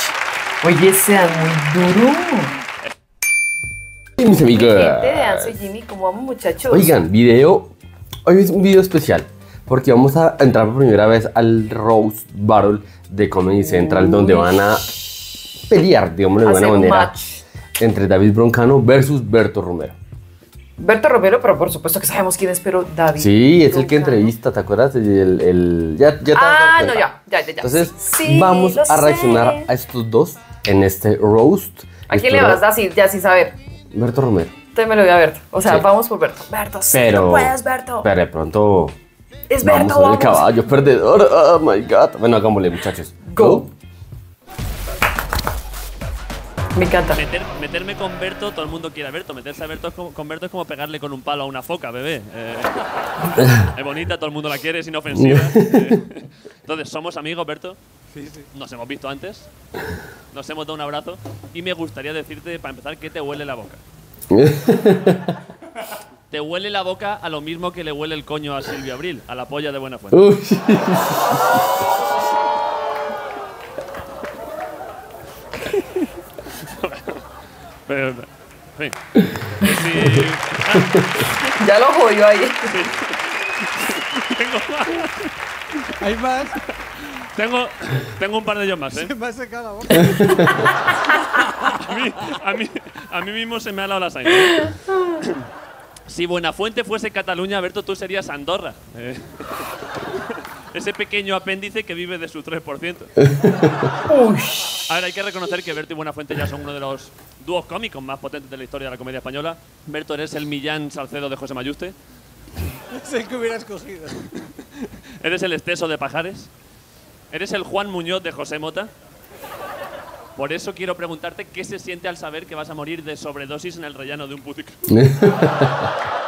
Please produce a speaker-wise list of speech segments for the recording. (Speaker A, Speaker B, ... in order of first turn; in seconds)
Speaker A: 0.6-2.5, 4.4-6.9, 13.7-14.5, 16.4-17.4, 20.8-24.3, 26.3-29.7, 32.1-33.6, 34.8-38.1, 39.5-40.5, 43.3-43.7, 46.8-47.2, 81.5-82.7, 94.4-95.2, 104.1-104.8
Speaker B: 4.2-5.5, 6.7-7.8, 8.3-15.0, 15.7-17.1, 17.8-20.0, 23.2-27.1, 27.6-32.6, 33.9-34.6, 36.9-39.0, 39.6-43.7, 53.4-53.7, 55.1-56.0, 64.3-65.2, 70.1-71.6, 81.0-81.2, 124.9-125.9
Speaker C: 47.1-52.7, 53.4-57.8, 58.5-59.5, 60.3-63.8, 66.3-70.2, 75.7-77.3, 77.9-81.4, 82.7-85.3, 86.8-89.1, 91.6-94.7, 96.1-103.3, 104.9-112.0, 115.2-116.5, 117.3-118.9, 120.4-124.9
Speaker D: 58.1-58.5, 86.0-86.6, 88.9-90.8, 112.6-114.7